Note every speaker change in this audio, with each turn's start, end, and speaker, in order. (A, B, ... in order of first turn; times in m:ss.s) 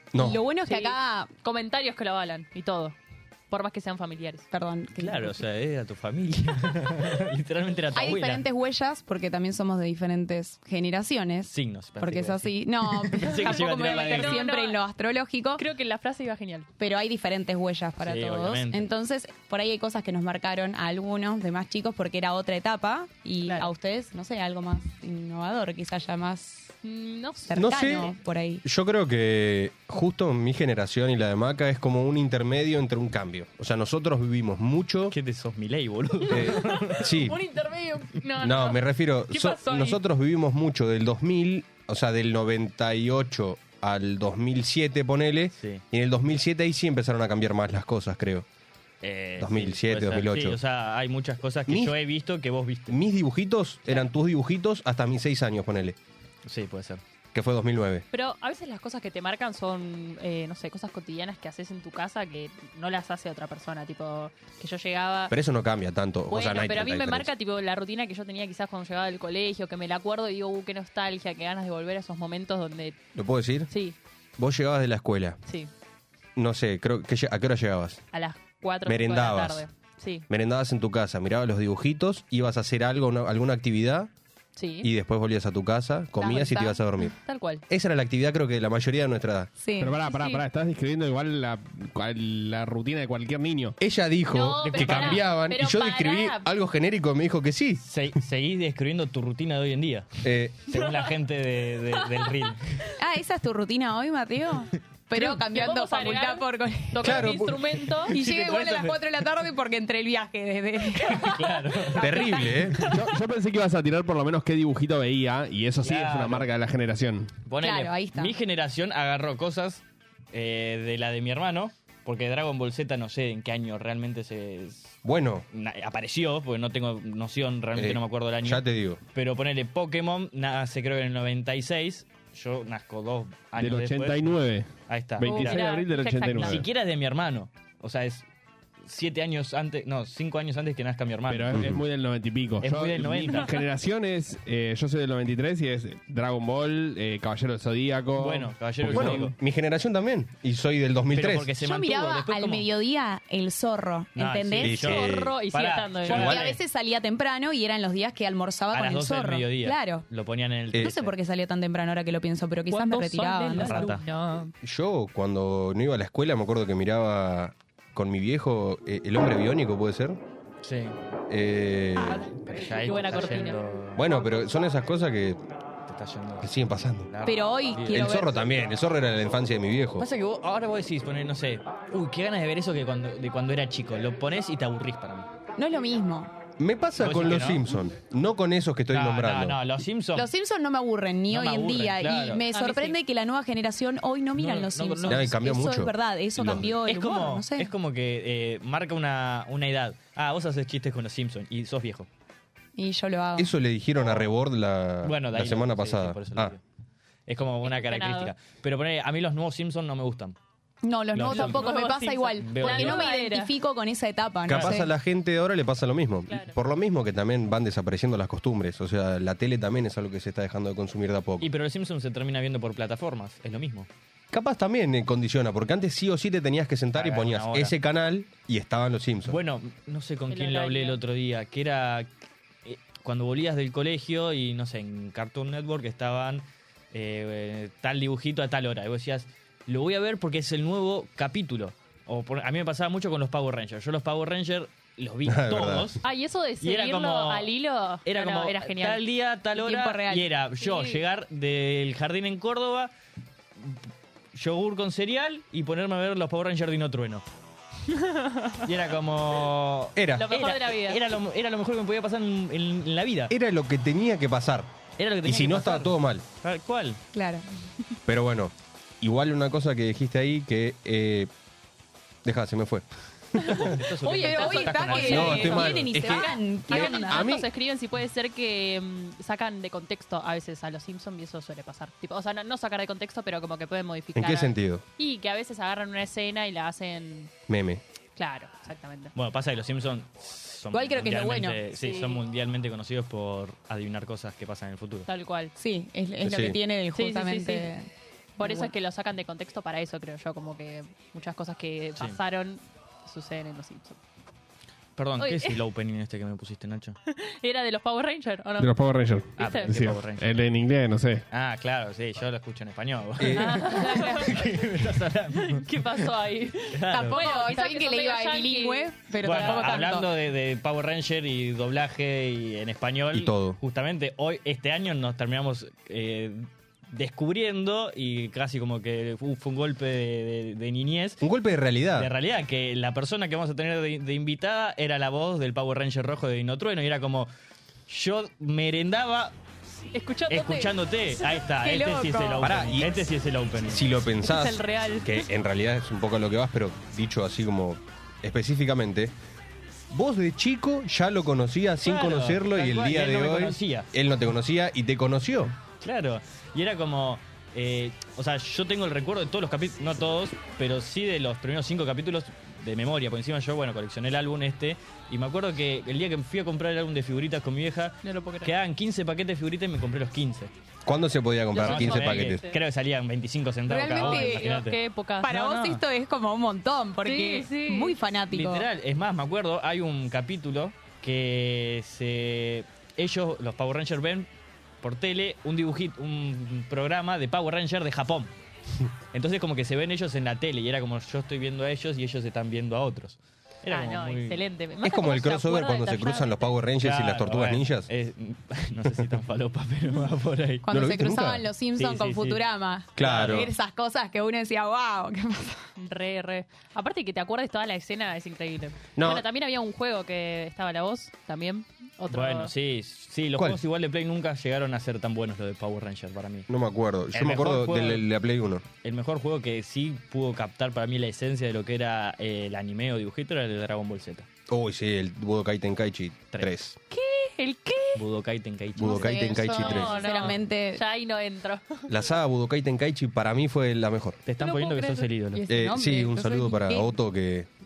0:00.1-0:00.4 A
0:00.2-0:01.3 B
0:00.6-0:03.0 C
0:03.5-0:04.5 C
0:04.5-0:05.4 B
0:05.0-0:08.4 D
0:07.9-0:15.6 B
0:11.5-0:14.4 D
0:13.4-0:14.8 C
0:15.6-0:16.7 C
0:16.8-0:26.7 B
0:18.0-0:18.9 D
0:26.8-0:27.9 C
0:27.5-0:28.6 B
0:27.6-0:35.2 A
0:35.1-0:37.1 D
0:36.2-0:40.0 C
0:36.3-0:37.4 A
0:38.4-0:48.4 A
0:49.0-0:53.0 D
0:49.4-0:50.6 A
0:51.7-0:51.9 A
0:52.9-0:56.0 A
0:56.4-0:57.0 D
0:57.3-0:58.0 A
0:58.1-1:05.3 C
1:05.3-1:07.3 A
1:06.3-1:13.0 C
1:13.2-1:13.7 A
1:13.7-1:14.0 C
1:14.4-1:15.4 A
1:16.4-1:18.0 A
1:18.1-1:20.2 C
1:18.9-1:19.6 A
1:20.3-1:24.1 A
1:24.6-1:24.9 C
1:24.8-1:27.1 A
1:26.2-1:26.8 B
1:27.1-1:27.6 C
1:27.7-1:29.5 A
1:29.6-1:30.0 B
1:29.8-1:33.8 E
1:30.1-1:30.4 C
1:33.8-1:37.8 A
1:34.3-1:36.5 C
1:34.6-1:35.3 D
1:37.8-1:40.1 D
1:40.2-1:40.7 A
1:40.7-1:42.8 D
1:42.0-1:42.3 C
1:43.0-1:47.4 B
1:45.2-1:48.2 C
1:47.0-1:47.6 A
1:48.1-1:49.0 D
1:48.1-1:51.4 B
1:51.1-1:52.1 D
1:51.9-1:52.2 C
1:52.0-1:52.5 B
1:52.0-1:52.9 A
1:52.9-1:57.3 E
1:55.8-1:56.5 D
1:57.4-2:05.0 D
1:57.6-1:58.3 B
2:05.0-2:05.4 A
2:05.5-2:08.6 D
2:07.8-2:09.0 A
2:09.1-2:15.7 D
2:13.6-2:14.7 E
2:15.2-2:16.6 E
2:15.2-2:16.6 C
2:16.3-2:18.2 D
2:18.8-2:21.7 D
2:21.3-2:29.3 E
2:21.5-2:21.8 A
2:22.6-2:23.5 D
2:28.2-2:29.3 D
2:28.9-2:31.5 A
2:31.1-2:32.7 D
2:31.6-2:34.8 B
2:34.2-2:36.6 D
2:34.6-2:35.3 A
2:34.7-2:36.4 C
2:36.1-2:40.1 B
2:38.7-2:41.1 D
2:40.8-2:43.9 B
2:42.7-2:44.5 C
2:43.6-2:44.0 D
2:44.6-2:50.2 A
2:50.6-2:51.0 D
2:51.3-2:52.3 A
2:52.4-2:54.3 D
2:52.7-2:53.6 C
2:54.0-2:55.4 A
2:55.9-2:56.5 D
2:56.4-2:57.1 A
2:57.1-2:58.2 D
2:57.2-2:58.3 B
2:57.9-3:00.1 A
3:00.0-3:05.3 D
3:05.6-3:06.3 B
3:06.6-3:09.6 A
3:07.0-3:07.7 D
3:08.9-3:10.3 D
3:10.2-3:17.7 B
3:11.3-3:12.4 D
3:12.5-3:13.0 C
3:14.3-3:15.4 D
3:15.1-3:16.7 A
3:16.8-3:22.1 D
3:22.8-3:23.5 B
3:23.4-3:26.5 A
3:24.0-3:24.3 D
3:25.0-3:26.6 D
3:27.3-3:30.4 D
3:27.6-3:28.3 C
3:30.8-3:34.9 B
3:31.1-3:33.1 D
3:31.3-3:33.5 C
3:34.5-3:41.5 A
3:34.5-3:34.8 D
3:36.3-3:36.6 C
3:41.4-3:43.9 D
3:44.3-3:49.4 A
3:46.9-3:47.7 D
3:49.3-3:52.1 D
3:50.3-3:51.0 C
3:52.6-4:06.0 D
4:05.3-4:05.9 A
4:06.0-4:09.0 C
4:06.6-4:07.5 D
4:08.0-4:12.9 D
4:09.6-4:10.3 B
4:10.6-4:11.0 C
4:13.6-4:17.2 D
4:17.9-4:18.6 C
4:18.6-4:23.3 D
4:20.0-4:20.3 A
4:20.2-4:21.0 C
4:23.3-4:24.7 A
4:25.0-4:27.0 D
4:25.2-4:26.2 A
4:27.1-4:27.4 B
4:28.1-4:31.3 A
4:32.2-4:32.8 A
4:33.4-4:47.3 C
4:33.5-4:35.8 D
4:34.1-4:37.4 B
4:35.1-4:37.4 A
4:44.2-4:44.8 A
4:47.5-4:47.8 A
4:48.2-4:49.1 C
4:49.2-4:55.1 D
4:50.7-4:51.6 B
4:51.7-4:52.2 C
4:55.1-4:55.5 C
4:55.6-4:57.8 B
4:56.2-4:56.6 A
4:56.9-4:57.7 C
4:58.4-5:04.0 C
4:58.4-4:58.7 B
5:05.0-5:07.0 D
5:05.2-5:05.6 C
5:07.1-5:08.8 C
5:08.6-5:11.2 E
5:09.4-5:09.9 C
5:09.4-5:10.5 D
5:11.3-5:16.1 D
5:13.2-5:13.6 A
5:13.3-5:14.8 C
5:15.3-5:19.9 C
5:16.7-5:17.2 D
5:16.9-5:20.1 B
5:19.2-5:31.2 D
5:23.1-5:23.6 A
5:31.2-5:32.1 A
5:31.9-5:37.3 D
5:37.9-5:39.3 D
5:39.9-5:40.7 C
5:40.3-5:43.8 D
5:41.4-5:42.5 B
5:42.4-5:43.0 A
5:43.7-5:49.1 A
5:44.2-5:45.3 C
5:49.9-5:55.5 A
5:51.8-5:53.9 D
5:55.8-6:10.5 D
6:08.0-6:08.5 C
6:10.8-6:12.4 A
6:11.5-6:12.6 C
6:11.6-6:15.8 D
6:13.7-6:14.6 B
6:13.9-6:15.3 C
6:15.2-6:18.6 B
6:17.0-6:18.0 C
6:18.3-6:24.3 D
6:24.8-6:28.3 D
6:29.1-6:34.4 D
6:33.7-6:36.6 C
6:34.8-6:37.9 A
6:36.8-6:40.7 D
6:40.6-6:45.6 B
6:40.7-6:41.5 A
6:41.8-6:42.4 D
6:43.0-6:43.5 A
6:43.0-6:43.5 D
6:45.8-6:52.5 C
6:49.0-6:49.2 A
6:52.1-6:56.5 D
6:56.5-6:58.6 A
6:57.1-6:58.1 D
6:58.8-7:04.3 D
7:04.5-7:06.8 A
7:06.9-7:08.0 C
7:08.0-7:10.4 D
7:08.8-7:10.0 A
7:08.8-7:10.8 B
7:09.5-7:11.9 C
7:11.9-7:14.2 A
7:14.3-7:15.4 D
7:14.4-7:15.1 C
7:15.3-7:16.9 B
7:15.5-7:17.5 A